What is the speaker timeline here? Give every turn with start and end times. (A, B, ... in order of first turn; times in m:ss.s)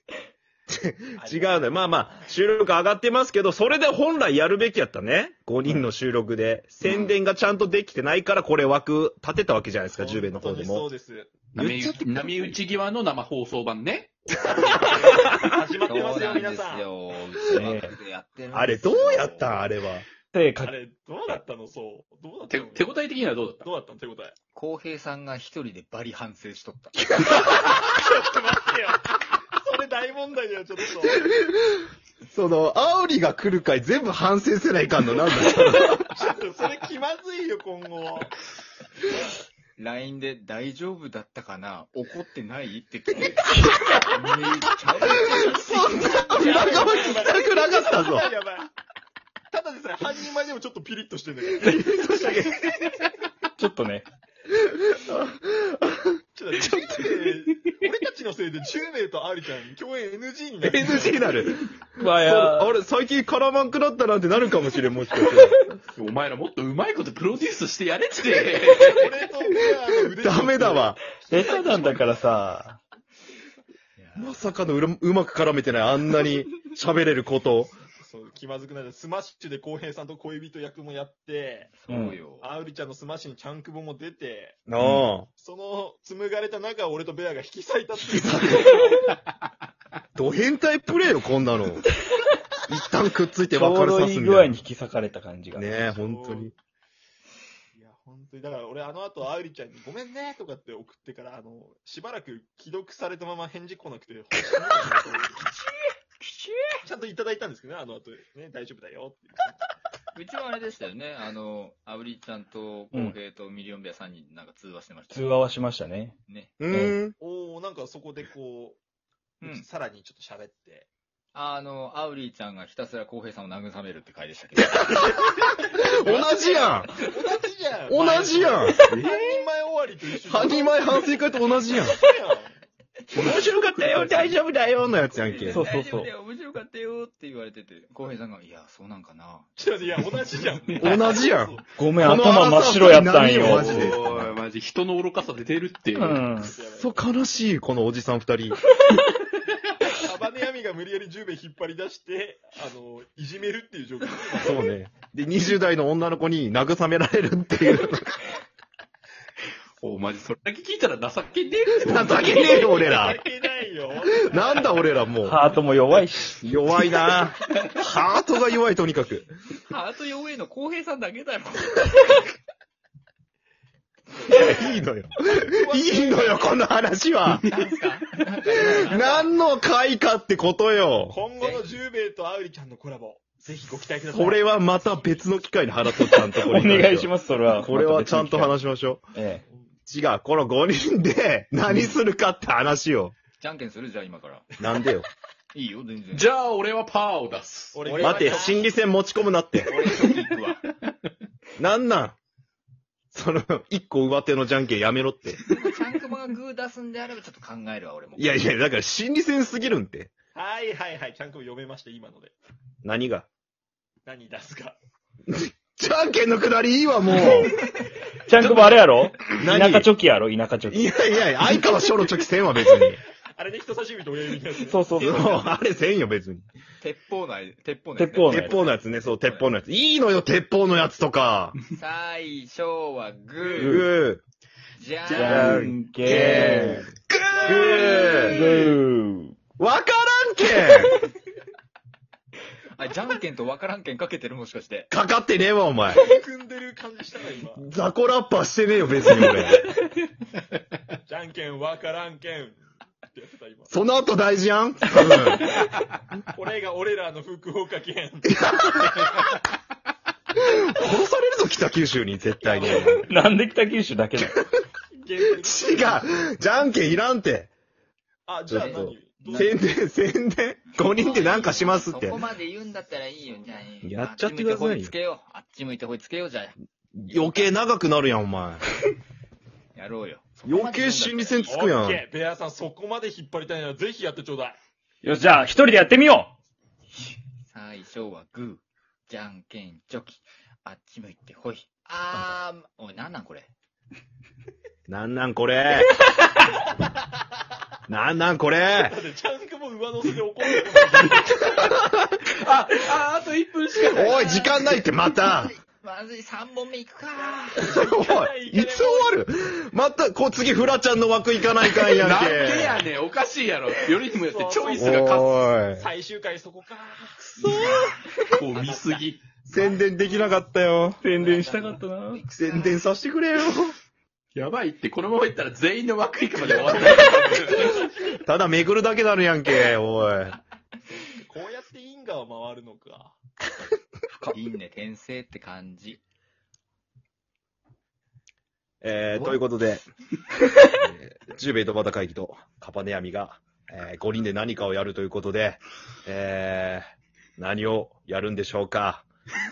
0:00.7-0:10.9 A
0:01.2-0:02.1 B
0:09.9-0:11.5 B
0:11.5-0:14.2 C
0:11.6-0:12.0 A
0:14.3-0:16.8 B
0:15.8-0:19.6 D
0:17.5-0:17.9 E
0:18.5-0:20.1 A
0:20.3-0:20.7 E
0:20.6-0:23.0 B
0:22.5-0:23.6 C
0:23.6-0:24.3 B
0:24.5-0:27.1 D
0:27.4-0:31.4 B
0:31.8-0:36.1 A
0:36.0-0:38.3 B
0:39.8-0:47.5 D
0:45.5-0:48.3 A
0:46.2-0:48.7 B
0:49.5-0:52.1 B
0:51.6-0:52.7 A
0:53.6-0:54.1 E
0:54.5-0:56.1 A
0:56.3-1:01.4 B
1:00.6-1:05.7 A
1:00.9-1:01.2 C
1:02.0-1:02.7 E
1:05.2-1:05.5 E
1:05.9-1:09.1 C
1:08.9-1:12.2 B
1:10.2-1:11.0 A
1:11.3-1:12.8 E
1:14.0-1:14.3 D
1:14.2-1:17.7 A
1:17.9-1:21.8 B
1:21.8-1:22.5 D
1:21.9-1:22.2 E
1:22.4-1:24.6 B
1:24.7-1:25.3 A
1:25.3-1:29.1 B
1:28.1-1:28.8 A
1:30.2-1:31.8 A
1:32.7-1:34.5 A
1:33.5-1:35.7 E
1:35.5-1:36.5 A
1:35.8-1:36.5 B
1:37.7-1:45.4 B
1:45.4-1:46.8 D
1:46.8-1:49.6 B
1:50.1-1:55.3 D
1:55.1-1:56.1 E
1:56.3-1:56.5 D
1:56.6-1:57.1 A
1:56.7-1:57.0 E
1:57.1-1:58.8 B
1:59.4-1:59.6 D
1:59.4-2:00.9 B
2:01.3-2:05.4 D
2:04.6-2:06.9 A
2:06.0-2:11.1 B
2:07.9-2:08.9 A
2:08.9-2:09.2 D
2:10.2-2:12.0 A
2:11.6-2:12.6 B
2:13.1-2:14.4 C
2:13.2-2:15.6 A
2:15.2-2:19.5 D
2:15.4-2:16.1 E
2:19.6-2:21.7 B
2:20.8-2:24.0 A
2:21.8-2:24.3 E
2:23.4-2:26.2 C
2:25.9-2:26.5 E
2:26.4-2:27.0 B
2:26.6-2:28.6 A
2:29.9-2:34.6 B
2:34.4-2:38.2 A
2:39.8-2:42.8 C
2:41.7-2:43.2 A
2:42.2-2:44.9 B
2:44.2-2:45.4 A
2:45.2-2:46.4 E
2:46.4-2:49.3 A
2:49.6-2:52.2 D
2:54.2-2:54.8 B
2:54.3-2:57.4 A
2:55.5-2:56.6 B
2:57.5-2:59.3 D
2:58.7-3:01.2 A
3:01.1-3:04.7 B
3:01.4-3:01.6 D
3:04.0-3:09.0 A
3:05.9-3:08.6 E
3:09.1-3:09.4 E
3:09.9-3:13.1 A
3:13.4-3:14.5 D
3:14.6-3:15.0 A
3:15.5-3:16.3 D
3:16.1-3:17.8 C
3:17.7-3:18.6 B
3:17.8-3:18.7 D
3:18.0-3:19.7 A
3:19.7-3:20.6 D
3:21.6-3:22.2 A
3:23.1-3:25.4 A
3:25.5-3:28.4 D
3:28.2-3:30.1 A
3:30.3-3:32.3 B
3:32.8-3:33.3 A
3:34.0-3:34.8 B
3:35.3-3:37.5 A
3:38.2-3:40.9 E
3:38.3-3:38.9 C
3:39.4-3:39.9 A
3:40.7-3:43.0 A
3:43.3-3:44.8 B
3:44.6-3:45.3 E
3:44.9-3:45.5 D
3:45.0-3:46.5 A
3:46.8-3:49.5 D
3:48.0-3:48.6 E
3:48.3-3:51.6 A
3:51.7-3:53.8 D
3:53.6-3:53.9 E
3:53.6-3:54.2 A
3:54.8-3:55.6 D
3:55.1-3:56.9 E
3:55.1-3:56.9 A
3:57.1-3:58.6 C
3:57.4-3:58.4 A
3:58.2-3:59.4 E
3:59.6-4:01.0 A
4:02.7-4:04.9 D
4:04.9-4:06.0 A
4:05.9-4:07.7 B
4:07.6-4:09.7 A
4:11.0-4:13.7 B
4:13.7-4:15.5 A
4:16.3-4:18.8 B
4:18.4-4:19.2 A
4:20.5-4:23.1 A
4:22.4-4:23.0 B
4:22.8-4:24.4 E
4:24.9-4:26.1 B
4:25.4-4:27.5 A
4:28.3-4:29.6 B
4:28.5-4:32.2 A
4:28.5-4:29.6 D
4:30.7-4:36.5 D
4:33.8-4:34.9 A
4:37.0-4:38.6 A
4:37.1-4:37.5 D
4:39.7-4:41.5 D
4:40.4-4:42.0 A
4:41.4-4:44.6 B
4:45.0-4:46.3 E
4:47.4-4:53.5 D
4:54.9-4:55.9 A
4:57.9-4:59.0 A
4:58.8-5:01.5 B
5:02.2-5:04.5 C
5:03.9-5:05.5 A
5:04.0-5:04.6 D
5:05.2-5:07.8 D
5:07.6-5:09.2 B
5:07.7-5:12.8 A
5:11.8-5:15.4 C
5:14.1-5:15.0 B
5:14.7-5:15.9 A
5:15.7-5:17.9 B
5:17.4-5:18.8 D
5:18.3-5:19.2 C
5:19.5-5:21.0 A
5:19.5-5:20.1 D
5:21.0-5:22.2 E
5:21.0-5:22.8 D
5:22.3-5:23.8 A
5:24.3-5:27.9 C
5:26.4-5:27.9 B
5:28.1-5:30.4 A
5:30.9-5:33.2 B
5:34.3-5:36.0 D
5:38.8-5:39.8 A
5:40.8-5:46.8 A
5:47.4-5:49.0 A